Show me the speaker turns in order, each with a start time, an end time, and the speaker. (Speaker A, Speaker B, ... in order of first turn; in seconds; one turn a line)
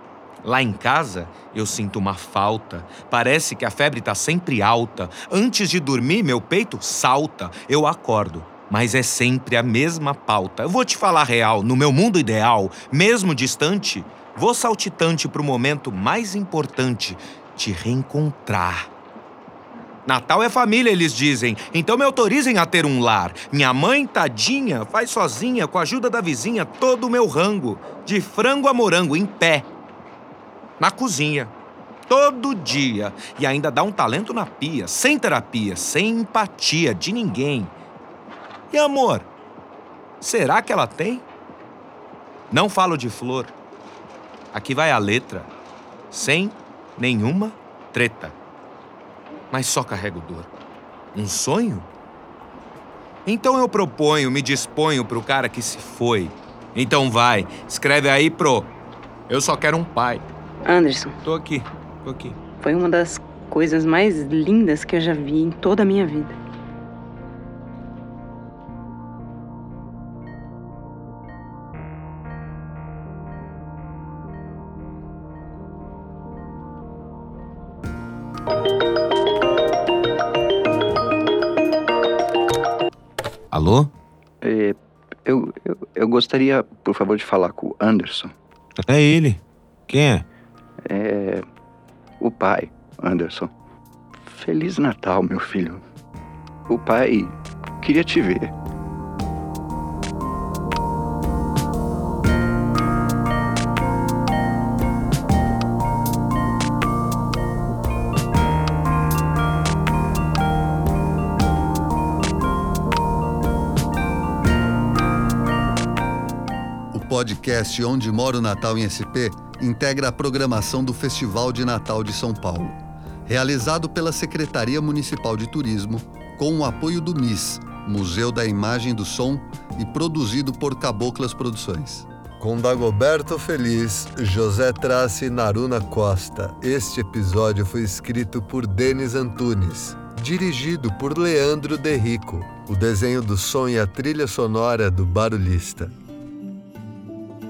Speaker A: 0.4-18.9
Speaker A: 20.1-29.7
Speaker A: 30.8-31.5
Speaker A: 32.1-37.7
Speaker A: 38.7-39.3
Speaker A: 40.2-41.2
Speaker A: 42.5-43.5
Speaker A: 44.5-45.5
Speaker A: 46.1-48.4
Speaker A: 49.5-50.5
Speaker A: 51.1-51.9
Speaker A: 53.2-58.7
Speaker A: 59.3-60.2
Speaker B: 60.6-61.2
Speaker A: 61.2-62.4
Speaker B: 62.6-66.4
Speaker A: 83.5-83.9
Speaker C: 84.4-88.3
Speaker A: 88.8-90.2
Speaker C: 90.8-91.5
Speaker C: 92.2-93.5
Speaker C: 94.3-95.8
Speaker C: 96.7-98.5
Speaker D: 116.9-145.9